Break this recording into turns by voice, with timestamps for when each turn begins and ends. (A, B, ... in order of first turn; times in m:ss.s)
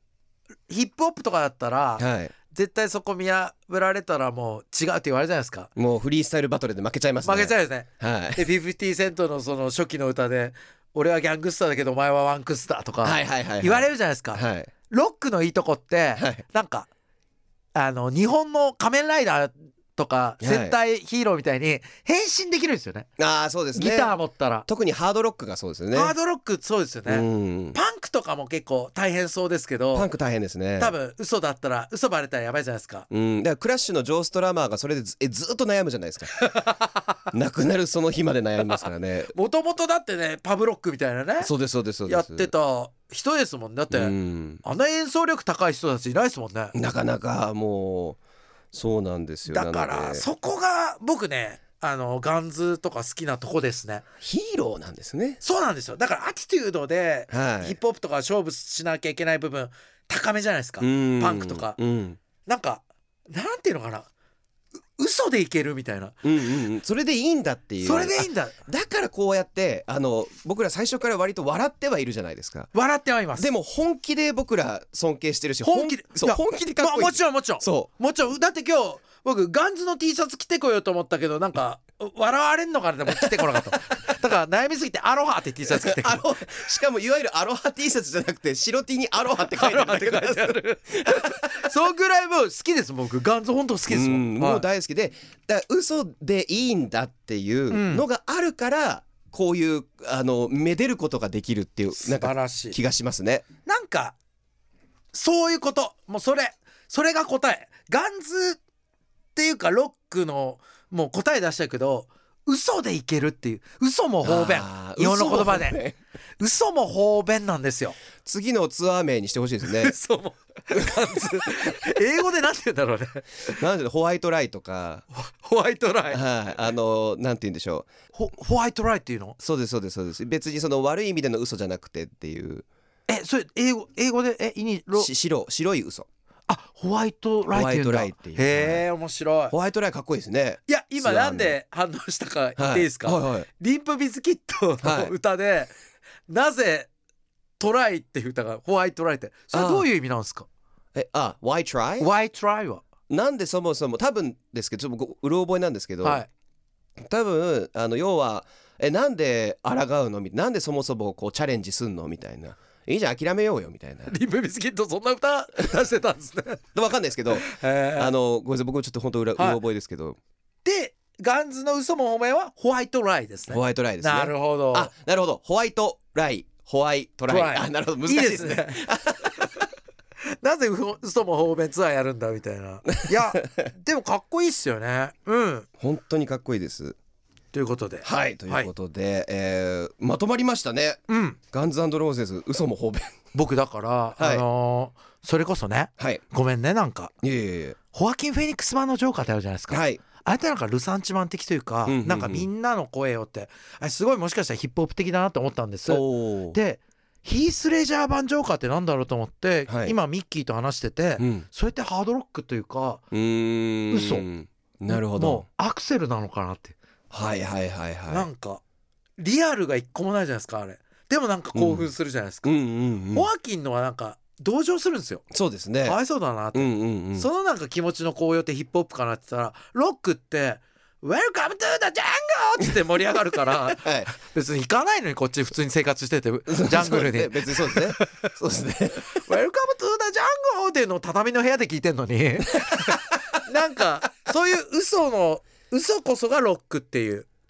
0:00.7-0:05.7 A
0:02.0-0:02.3 B
0:05.8-0:08.4 B
0:07.2-0:16.9 A
0:13.0-0:14.7 B
0:16.2-0:16.4 B
0:17.7-0:23.1 A
0:20.4-0:20.8 B
0:23.2-0:24.1 B
0:23.7-0:24.6 A
0:24.7-0:26.1 B
0:25.9-0:30.1 A
0:27.0-0:27.8 B
0:29.9-0:30.9 B
0:30.8-0:33.1 A
0:33.1-0:36.4 B
0:36.4-0:37.0 A
0:37.3-0:39.3 B
0:38.7-0:41.5 A
0:41.4-0:42.5 B
0:42.1-0:46.7 A
0:43.9-0:44.6 B
0:46.7-0:48.2 B
0:48.7-0:50.3 B
0:49.5-0:54.0 A
0:54.2-0:55.4 B
0:55.4-1:01.8 A
0:57.3-0:57.8 B
1:00.8-1:02.2 B
1:02.4-1:04.1 A
1:05.0-1:06.2 A
1:06.2-1:12.7 B
1:07.8-1:08.5 A
1:12.7-1:13.5 A
1:13.4-1:17.9 B
1:15.6-1:26.2 A
1:23.2-1:23.6 B
1:25.7-1:31.5 B
1:29.5-1:34.6 A
1:33.9-1:43.4 B
1:37.7-1:38.0 A
1:42.0-1:42.8 A
1:43.6-1:44.2 A
1:45.1-1:48.6 A
1:49.3-1:55.8 A
1:54.2-1:56.0 B
1:56.4-1:58.0 A
1:58.2-1:59.9 B
1:59.6-2:03.6 A
2:03.5-2:05.0 B
2:05.1-2:06.2 A
2:06.1-2:07.9 B
2:08.1-2:09.4 A
2:09.4-2:12.6 B
2:13.1-2:15.1 A
2:14.9-2:16.1 B
2:16.5-2:19.5 A
2:17.5-2:18.8 B
2:19.5-2:21.6 B
2:20.7-2:25.7 A
2:22.6-2:23.5 B
2:24.8-2:25.1 B
2:26.3-2:26.9 A
2:27.6-2:30.5 A
2:29.5-2:29.8 B
2:30.9-2:32.1 B
2:32.0-2:32.8 A
2:33.1-2:36.2 B
2:36.0-2:36.3 A
2:37.1-2:44.1 B
2:44.1-2:46.6 A
2:46.7-2:50.2 B
2:47.3-2:48.1 A
2:49.4-2:49.6 A
2:50.6-2:54.9 A
2:53.5-2:59.5 B
2:57.3-2:58.8 A
3:00.4-3:05.7 A
3:02.9-3:03.2 B
3:05.8-3:07.0 B
3:07.5-3:08.7 A
3:08.0-3:11.0 B
3:11.1-3:11.4 A
3:11.5-3:13.2 B
3:13.3-3:17.1 A
3:14.2-3:14.4 B
3:16.0-3:16.2 B
3:17.2-3:17.8 B
3:17.9-3:33.0 A
3:19.7-3:20.0 B
3:21.8-3:22.5 B
3:25.8-3:26.6 B
3:29.7-3:29.9 B
3:31.2-3:31.4 B
3:33.1-3:35.4 B
3:33.9-3:34.3 A
3:34.9-3:36.7 A
3:37.1-3:38.3 B
3:38.1-3:38.6 A
3:39.2-3:42.5 A
3:41.5-3:41.9 B
3:42.4-3:43.3 B
3:43.1-3:45.3 A
3:45.3-3:46.0 B
3:45.8-3:58.1 A
3:46.5-3:47.3 B
3:53.4-3:54.1 B
3:56.5-3:59.2 B
3:59.1-4:07.3 A
4:02.6-4:03.0 B